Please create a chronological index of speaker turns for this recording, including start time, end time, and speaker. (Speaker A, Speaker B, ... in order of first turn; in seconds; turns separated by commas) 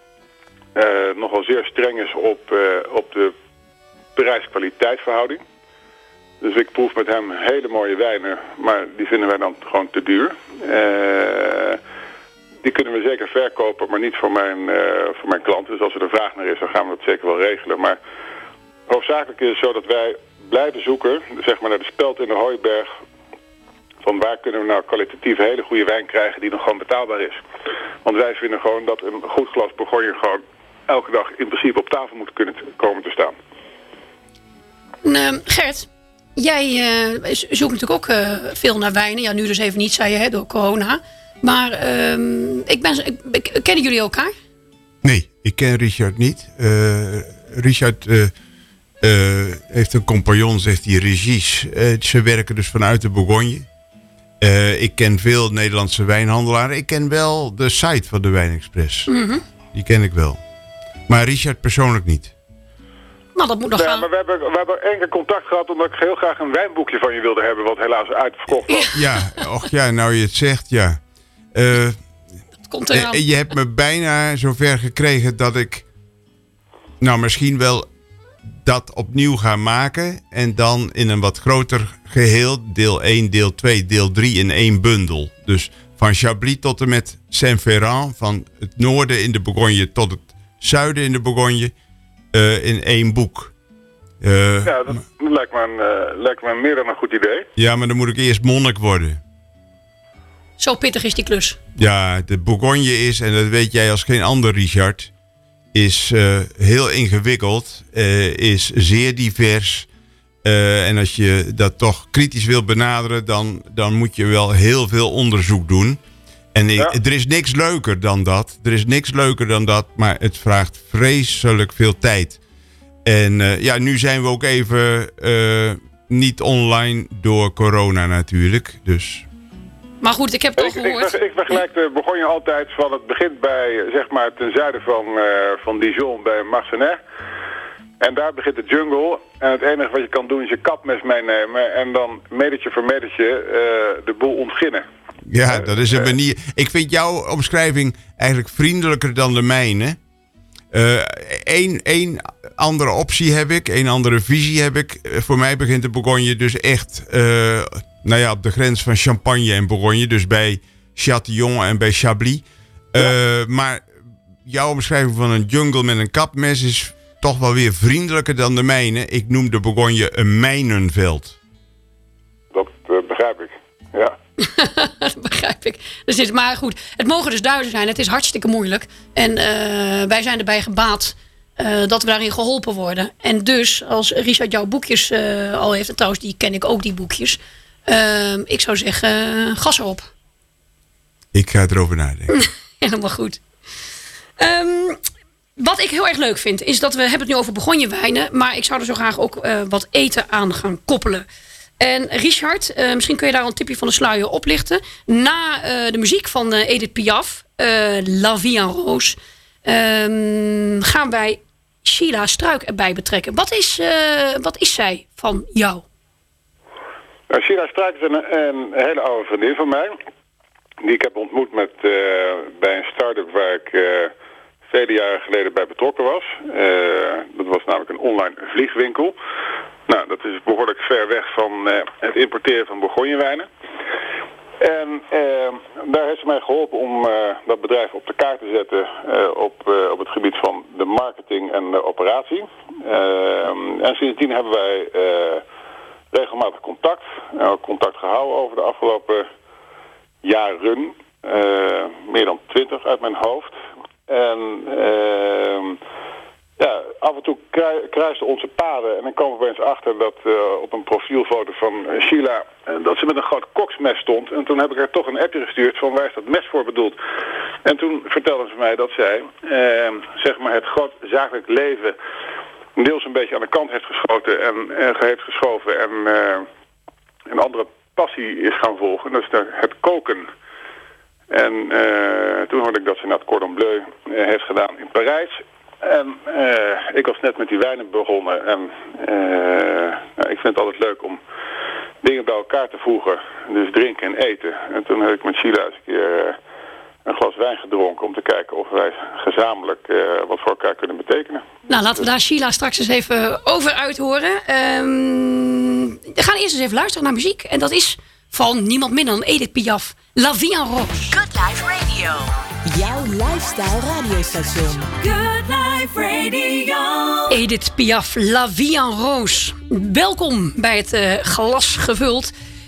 Speaker A: 0.8-3.3, Speaker A: 4.2-5.4, Speaker A: 6.4-11.8, Speaker A: 12.6-18.0, Speaker A: 18.9-22.9, Speaker A: 24.0-27.4, Speaker A: 28.0-33.3, Speaker B: 35.0-44.3, Speaker C: 45.0-48.3, Speaker C: 49.0-53.7, Speaker C: 54.4-59.1, Speaker B: 59.1-59.4, Speaker C: 59.7-60.4, Speaker C: 61.1-62.3, Speaker B: 63.3-64.1, Speaker A: 63.8-69.0, Speaker C: 68.9-71.0, Speaker C: 71.5-72.0, Speaker B: 72.7-73.2, Speaker C: 72.9-75.8, Speaker C: 77.0-77.9, Speaker C: 78.5-91.7, Speaker C: 92.3-93.5, Speaker C: 94.2-95.0, Speaker A: 94.6-97.5, Speaker C: 97.5-99.2, Speaker B: 100.6-101.6, Speaker C: 101.8-105.1, Speaker C: 105.7-109.9, Speaker C: 110.4-116.0, Speaker C: 116.5-122.4, Speaker C: 123.0-129.2, Speaker B: 130.0-131.1, Speaker A: 130.6-137.0, Speaker A: 138.0-144.8, Speaker C: 145.3-150.0, Speaker C: 150.7-163.8, Speaker C: 164.5-171.3, Speaker A: 172.5-174.2, Speaker B: 174.4-190.1, Speaker C: 191.3-192.3, Speaker B: 192.3-193.4, Speaker B: 194.4-195.0, Speaker B: 195.6-201.2, Speaker B: 201.8-215.8, Speaker A: 217.3-220.0, Speaker A: 220.8-224.1, Speaker A: 224.7-229.1, Speaker A: 229.9-233.5, Speaker A: 234.6-245.4, Speaker A: 246.1-249.2, Speaker A: 250.2-253.5, Speaker A: 254.1-255.8, Speaker A: 256.6-267.0, Speaker A: 267.6-272.0, Speaker A: 272.8-276.5, Speaker A: 277.3-280.3, Speaker A: 281.3-291.2, Speaker A: 292.0-296.4, Speaker A: 297.1-301.4, Speaker B: 301.7-311.1, Speaker D: 311.1-314.9, Speaker E: 315.0-317.4, Speaker B: 317.3-322.3